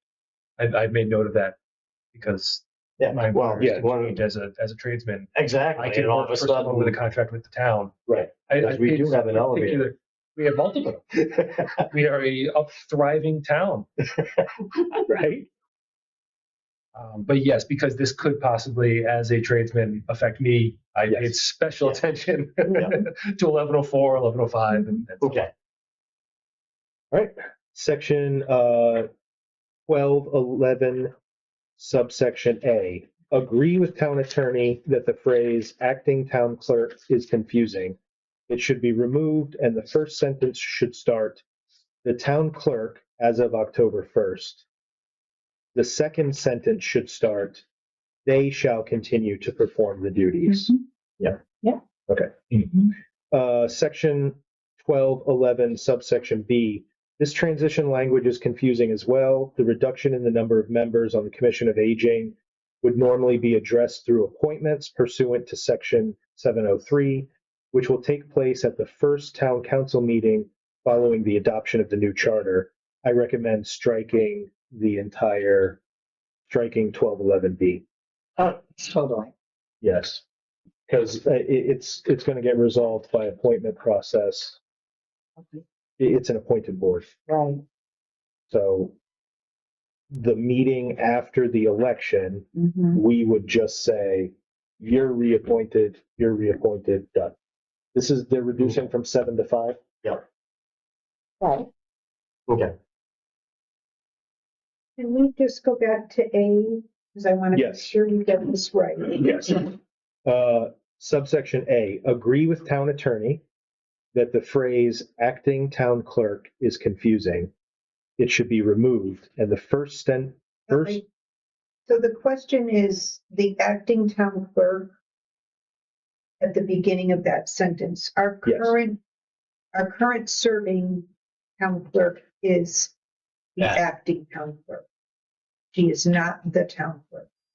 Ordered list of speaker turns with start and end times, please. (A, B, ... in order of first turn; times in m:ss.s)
0:00.6-0:01.6 A
0:02.1-0:13.9 A
0:03.0-0:04.2 B
0:03.6-0:03.9 C
0:05.3-0:07.0 B
0:08.1-0:09.9 B
0:16.9-0:25.5 A
0:25.2-0:25.5 B
0:27.1-0:29.1 C
0:29.9-0:31.1 C
0:31.8-0:38.0 C
0:38.5-0:41.4 C
0:42.0-0:44.6 C
0:45.7-0:47.6 C
0:48.2-0:51.4 C
0:50.4-0:50.8 D
0:52.1-1:15.8 C
1:16.5-1:17.8 C
1:18.4-1:19.3 D
1:19.8-1:20.2 C
1:20.9-1:24.6 C
1:25.4-1:25.6 D
1:26.0-1:27.1 C
1:27.3-1:27.6 D
1:28.5-1:28.9 C
1:30.1-1:37.3 C
1:32.5-1:33.0 D
1:37.9-1:39.8 C
1:41.4-1:41.7 D
1:42.5-1:42.7 B
1:45.0-1:49.2 E
1:47.5-1:47.9 C
1:49.1-1:49.7 C
1:50.2-1:53.4 C
1:54.1-1:57.5 C
1:58.2-2:01.0 C
2:00.7-2:01.0 E
2:01.9-2:04.9 E
2:06.4-2:09.0 E
2:08.4-2:08.7 C
2:09.7-2:12.9 E
2:13.6-2:14.8 E
2:15.7-2:17.3 E